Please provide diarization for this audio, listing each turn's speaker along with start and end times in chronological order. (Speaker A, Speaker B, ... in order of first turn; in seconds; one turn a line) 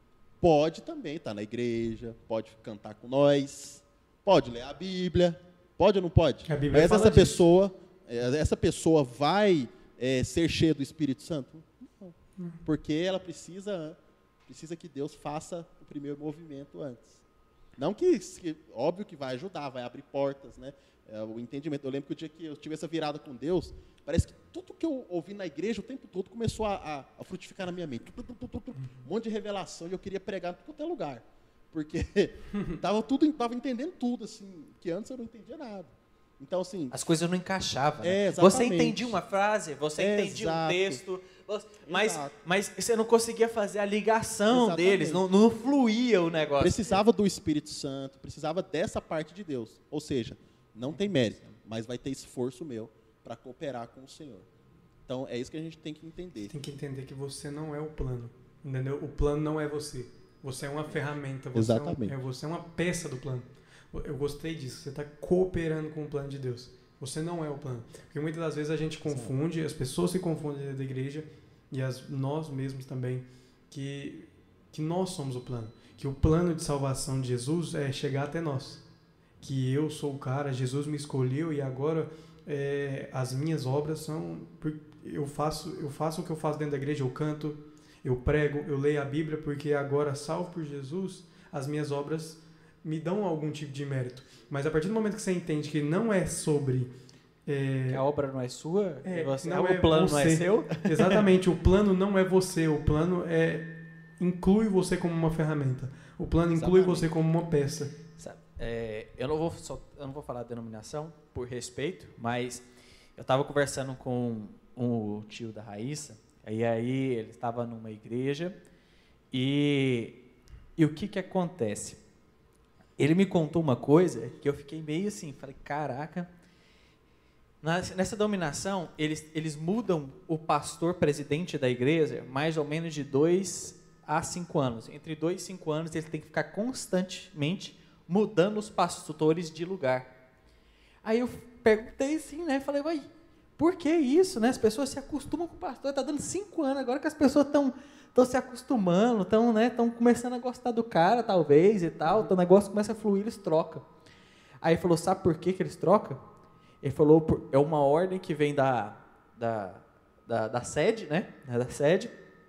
Speaker A: 0.4-17.2
Speaker B: 6.5-7.4
Speaker A: 17.8-37.0
Speaker B: 32.5-32.8
Speaker C: 36.9-47.0
Speaker A: 38.0-39.2
Speaker A: 40.0-41.0
Speaker A: 41.8-42.3
Speaker A: 44.5-45.2
Speaker A: 46.6-54.5
Speaker C: 51.1-51.5
Speaker A: 55.1-56.5
Speaker B: 56.5-78.8
Speaker A: 61.5-62.1
Speaker A: 69.0-69.3
Speaker B: 79.4-96.9
Speaker B: 97.5-98.0
Speaker C: 97.9-101.2
Speaker B: 99.0-107.9
Speaker A: 106.5-107.1
Speaker C: 108.2-112.6
Speaker C: 113.2-118.5
Speaker C: 119.3-120.2
Speaker C: 120.8-122.0
Speaker C: 123.0-126.3
Speaker C: 127.6-140.1
Speaker C: 141.0-153.8
Speaker C: 154.6-156.2
Speaker C: 156.8-162.1